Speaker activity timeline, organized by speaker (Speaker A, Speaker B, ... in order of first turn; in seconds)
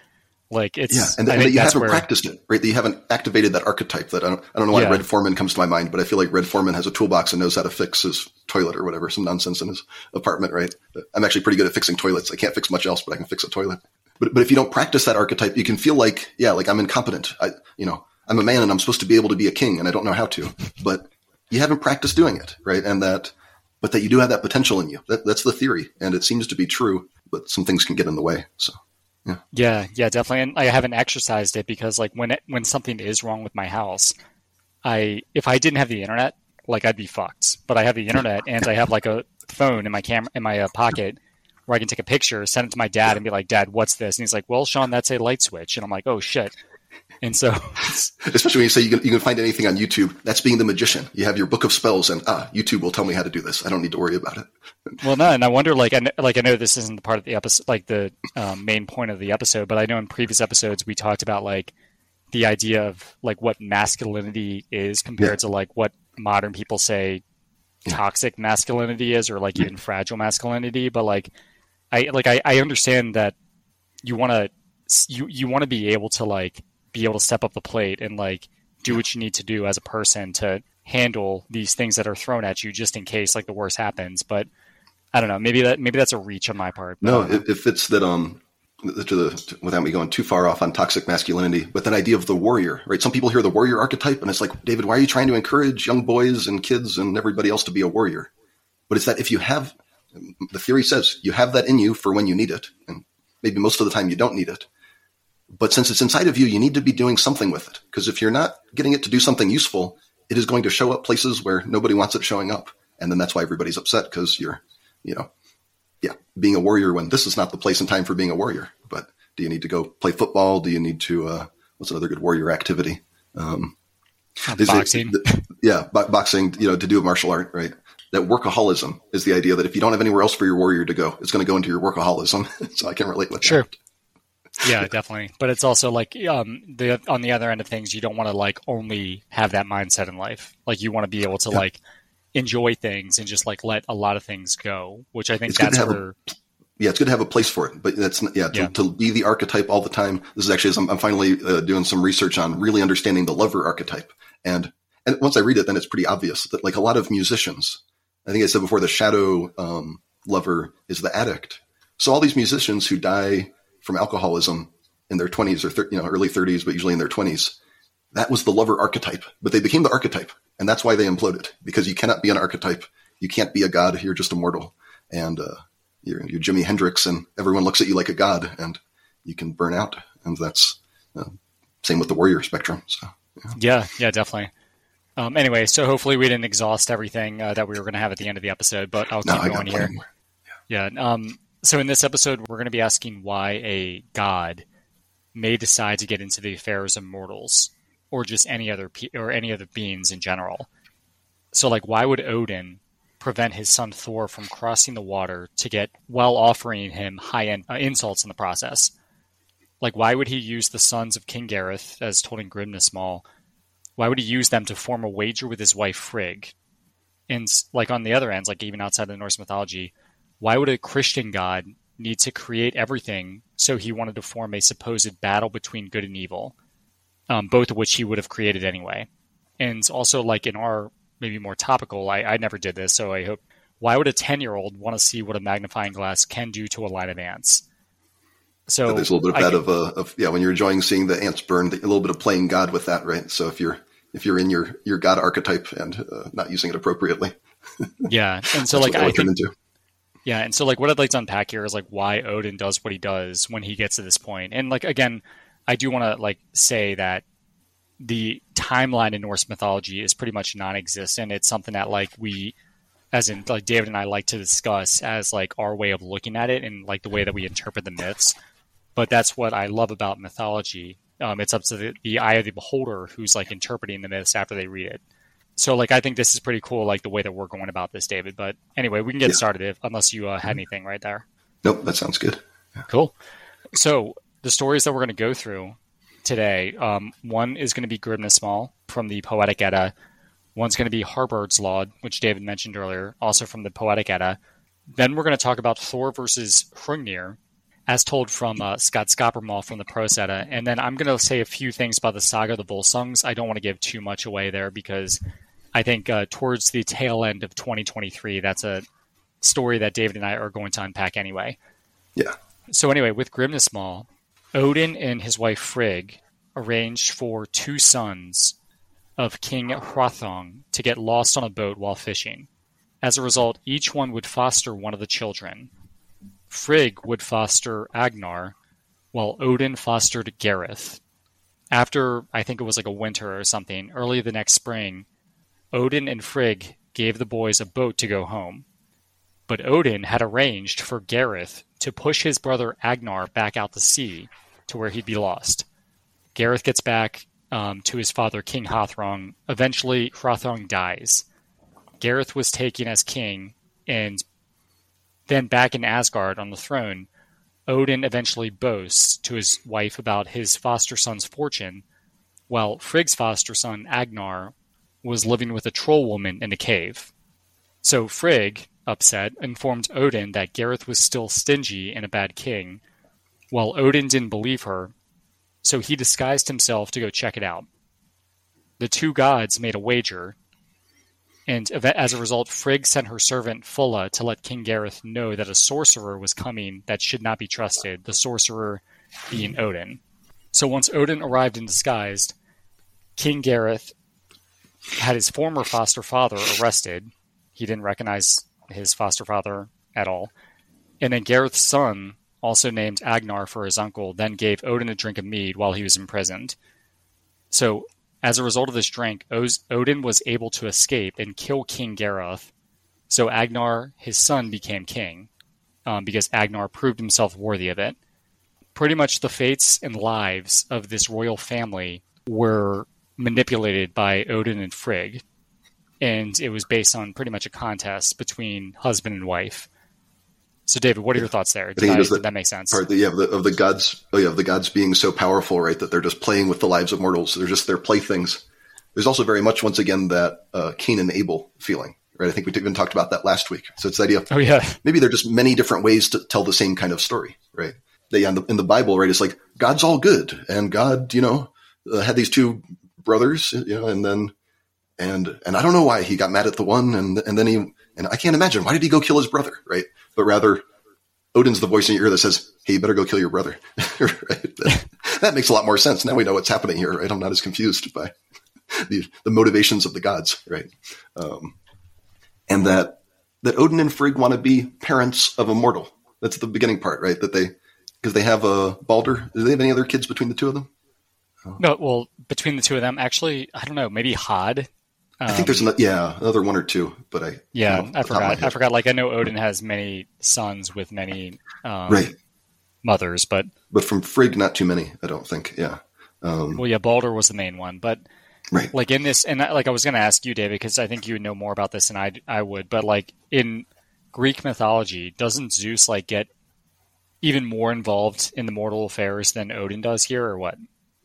Speaker A: 0.5-2.0, 4.7-5.0, 29.5-34.1, 34.9-46.5, 47.2-48.1, 55.0-61.7, 62.3-67.2, 67.9-71.3, 71.9-73.3, 74.0-84.5, 85.1-87.4, 124.5-125.5, 134.6-141.8, 142.3-146.2, 183.5-184.5, 185.2-189.9, 190.7-194.6, 195.3-200.7, 201.5-208.9, 209.8-213.2, 214.0-216.5, 217.3-226.5, 227.3-229.1, 229.6-237.6, 238.7-239.6, 248.1-249.3, 250.3-257.2, 258.0-262.5, 263.1-268.4, 269.0-275.0, 275.6-281.2, 282.9-283.1, 283.7-289.9, 290.6-294.4, 295.0-305.2, 305.8-308.9, 309.4-311.6, 312.7-318.6, 319.2-322.5, 323.0-325.7, 326.5-328.6, 329.1-331.0, 331.7-335.1, 335.7-338.6, 339.5-345.6, 346.4-351.2, 352.0-354.2, 355.3-357.1, 357.7-361.8, 362.5-367.1, 367.8-372.8, 373.5-374.9, 375.6-377.7, 378.8-380.4, 381.5-390.0, 390.5-392.3, 393.2-393.9, 395.0-400.3, 401.0-406.6, 407.5-412.5, 413.1-415.3, 415.9-418.0, 418.8-425.2, 426.0-429.7, 430.7-432.8, 444.3-444.8, 481.6-484.7, 485.2-485.7, 487.5-492.1, 492.8-493.5, 496.6-498.0, 498.7-506.3, 507.2-510.6
Speaker B: 0.9-28.8, 48.2-55.0, 87.0-98.3, 98.9-104.7, 105.5-115.3, 116.0-123.8, 124.5-133.7, 145.5-146.0, 146.8-167.6, 168.1-183.6, 189.2-190.0, 238.9-248.1, 248.7-249.5, 281.6-282.4, 431.8-432.2, 432.7-438.4, 438.9-444.3, 444.8-454.3, 455.0-460.6, 461.3-468.1, 468.7-471.6, 472.5-477.5, 478.0-480.7, 485.3-488.6, 491.9-492.1, 493.7-496.6